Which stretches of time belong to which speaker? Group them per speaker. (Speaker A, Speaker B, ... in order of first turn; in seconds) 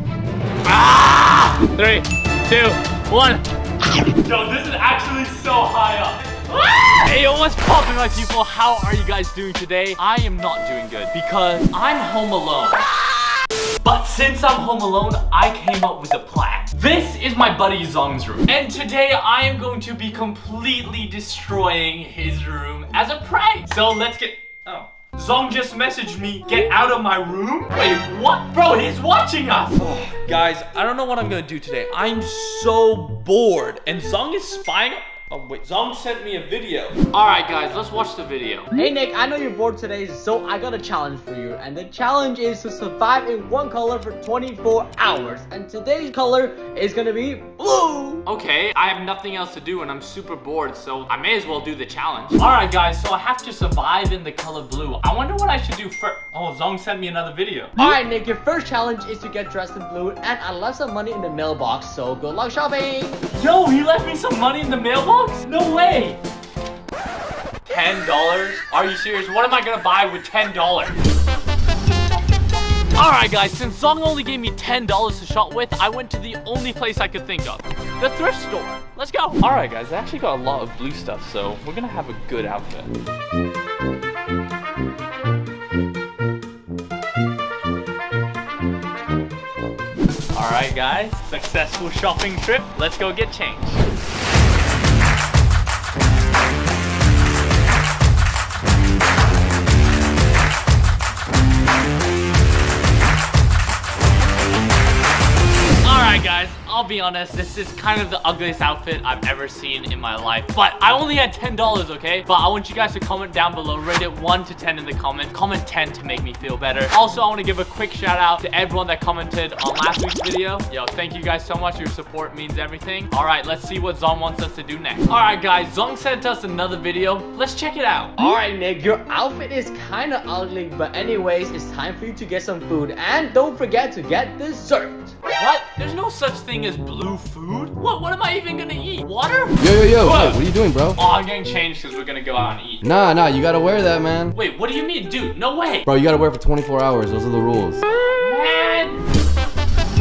Speaker A: 0.6-13.0, 13.8-38.7, 48.2-57.8, 63.3-66.2, 67.7-70.9, 73.0-82.9, 90.3-93.8, 105.8-128.2, 135.3-142.8, 144.3-145.9, 148.1-149.0
Speaker B: 38.7-48.2, 57.8-63.2, 128.2-135.1
Speaker C: 139.6-141.0, 142.8-144.3, 145.8-147.8